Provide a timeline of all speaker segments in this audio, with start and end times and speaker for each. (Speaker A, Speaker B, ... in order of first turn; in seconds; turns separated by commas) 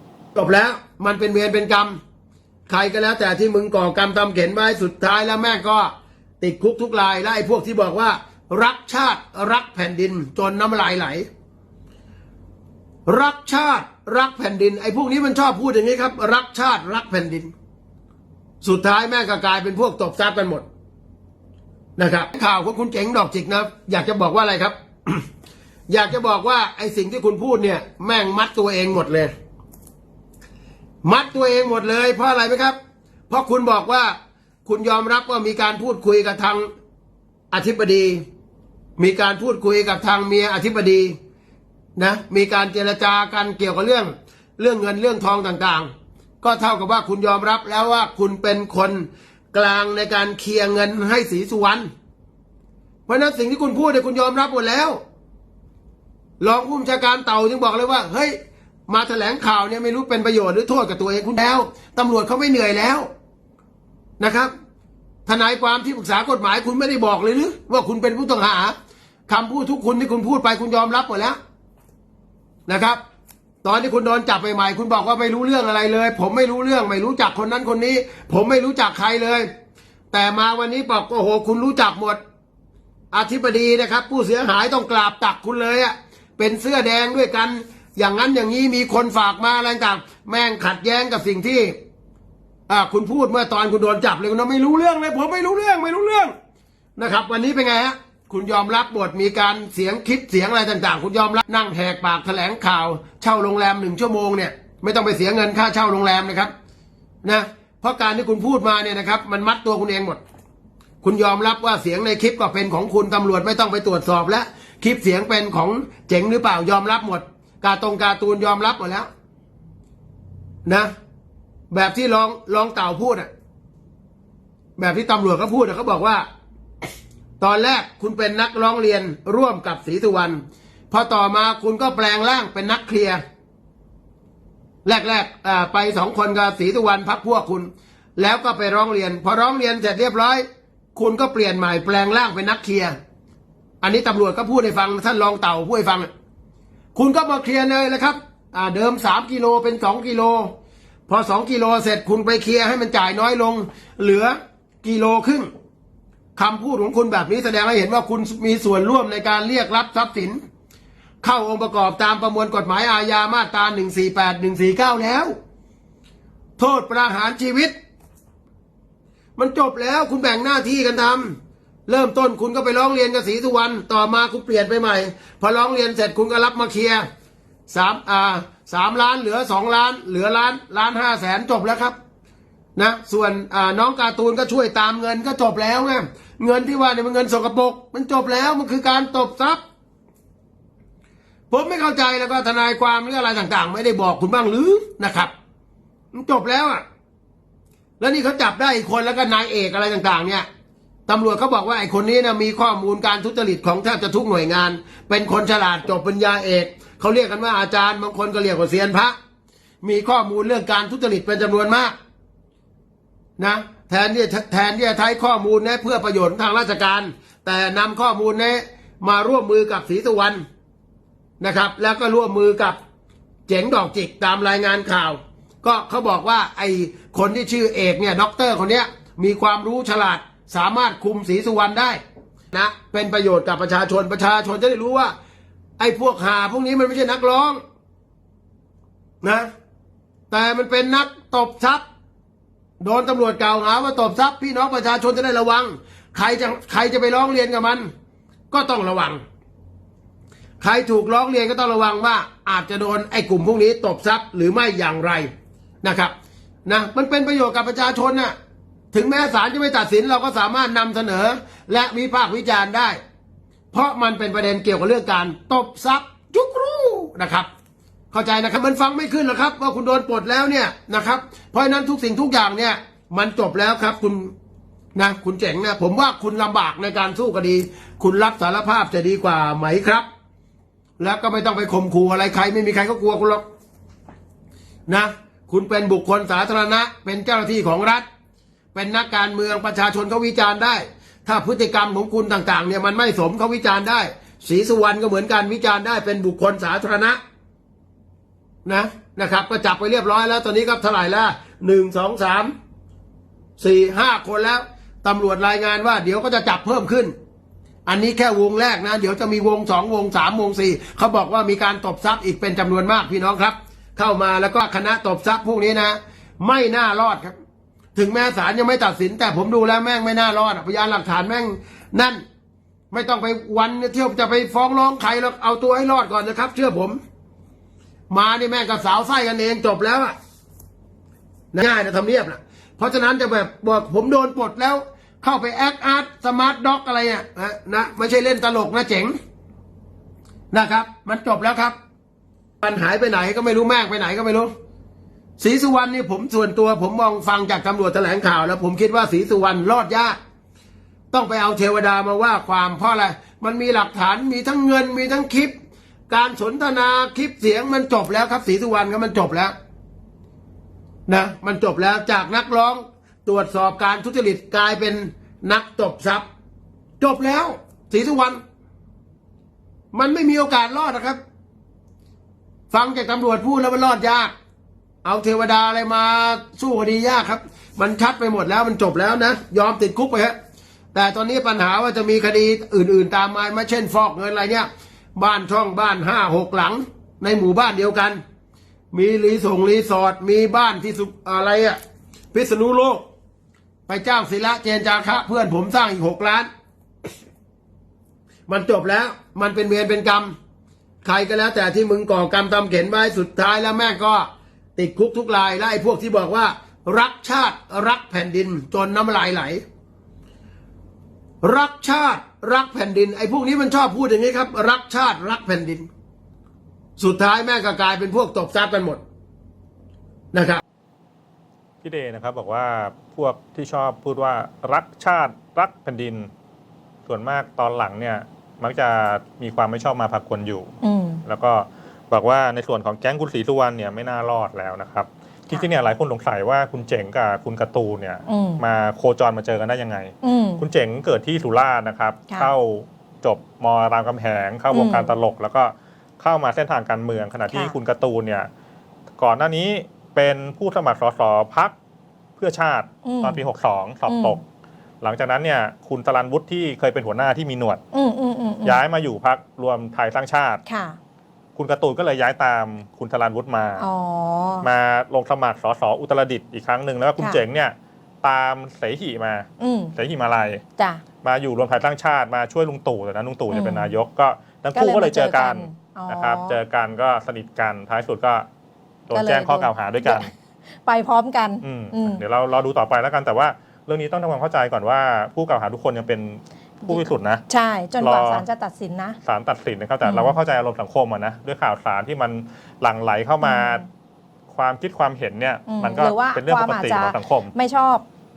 Speaker A: 0.3-2.0, Speaker A: 2.7-11.3, Speaker A: 13.1-17.5, Speaker A: 18.6-20.6, Speaker A: 22.0-25.2, Speaker A: 25.9-29.3, Speaker A: 31.0-32.8, Speaker A: 33.3-36.7, Speaker A: 37.5-38.2, Speaker A: 39.0-41.1, Speaker A: 42.0-45.9, Speaker A: 46.4-51.9, Speaker A: 53.1-55.0, Speaker A: 56.4-58.4, Speaker A: 58.9-63.1, Speaker A: 64.2-64.5, Speaker A: 65.2-68.7, Speaker A: 69.3-71.4, Speaker A: 72.7-73.0, Speaker A: 73.6-79.5, Speaker A: 80.1-82.2, Speaker A: 83.1-91.8, Speaker A: 92.7-96.3, Speaker A: 97.0-106.5, Speaker A: 107.2-110.2, Speaker A: 111.0-119.1, Speaker A: 120.6-120.9, Speaker A: 121.7-123.3, Speaker A: 124.8-126.2, Speaker A: 127.4-133.2, Speaker A: 134.8-142.9, Speaker A: 143.8-146.1, Speaker A: 146.9-150.5, Speaker A: 151.1-155.5, Speaker A: 156.3-160.4, Speaker A: 161.2-165.3, Speaker A: 166.6-167.7, Speaker A: 169.4-177.1, Speaker A: 177.7-181.9, Speaker A: 182.8-189.6, Speaker A: 191.5-195.3, Speaker A: 196.1-196.8, Speaker A: 198.0-200.5, Speaker A: 201.1-209.2, Speaker A: 209.8-211.9, Speaker A: 213.4-220.4, Speaker A: 221.4-222.8, Speaker A: 223.5-232.0, Speaker A: 232.5-235.1, Speaker A: 235.8-237.6, Speaker A: 239.2-239.5, Speaker A: 240.3-241.8, Speaker A: 242.8-247.9, Speaker A: 248.5-249.2, Speaker A: 250.6-255.3, Speaker A: 255.8-256.1, Speaker A: 256.6-258.3, Speaker A: 258.9-263.0, Speaker A: 263.7-267.5, Speaker A: 268.1-274.3, Speaker A: 274.9-280.1, Speaker A: 281.0-283.4, Speaker A: 284.9-288.0, Speaker A: 288.7-297.2, Speaker A: 298.6-302.5, Speaker A: 303.6-307.1, Speaker A: 307.9-317.3, Speaker A: 317.9-322.2, Speaker A: 322.9-327.0, Speaker A: 328.1-330.1, Speaker A: 331.5-339.1, Speaker A: 340.5-341.8, Speaker A: 342.6-344.5, Speaker A: 345.4-350.2, Speaker A: 351.1-355.5, Speaker A: 356.1-359.5, Speaker A: 361.1-366.2, Speaker A: 367.0-368.4, Speaker A: 369.9-371.2, Speaker A: 372.7-374.3, Speaker A: 375.0-380.4, Speaker A: 380.9-388.2, Speaker A: 388.9-391.8, Speaker A: 392.3-393.0, Speaker A: 393.9-396.5, Speaker A: 398.5-400.3, Speaker A: 401.0-409.6, Speaker A: 411.4-415.9, Speaker A: 417.0-419.0, Speaker A: 420.3-420.6, Speaker B: 421.8-426.3, Speaker B: 427.1-430.7, Speaker C: 430.8-431.2, Speaker B: 431.2-448.5, Speaker C: 438.3-438.6, Speaker C: 440.2-440.6, Speaker C: 444.7-445.1, Speaker B: 449.2-451.7, Speaker B: 452.4-454.4, Speaker C: 453.0-453.4, Speaker C: 454.1-454.4, Speaker B: 455.0-457.8, Speaker C: 457.9-458.8, Speaker B: 458.6-460.6, Speaker C: 460.7-461.0, Speaker B: 461.6-463.9, Speaker C: 463.8-464.7, Speaker B: 464.6-470.6, Speaker C: 469.6-469.9, Speaker C: 470.8-471.0, Speaker B: 471.2-478.5, Speaker C: 473.5-473.9, Speaker C: 474.7-476.6, Speaker B: 479.1-480.3, Speaker C: 479.1-480.3, Speaker C: 480.8-482.2, Speaker B: 481.6-487.4, Speaker C: 486.9-489.2, Speaker B: 488.0-488.4, Speaker B: 489.2-493.8, Speaker C: 490.0-490.3, Speaker C: 493.4-493.8, Speaker B: 494.5-497.5, Speaker C: 495.7-498.0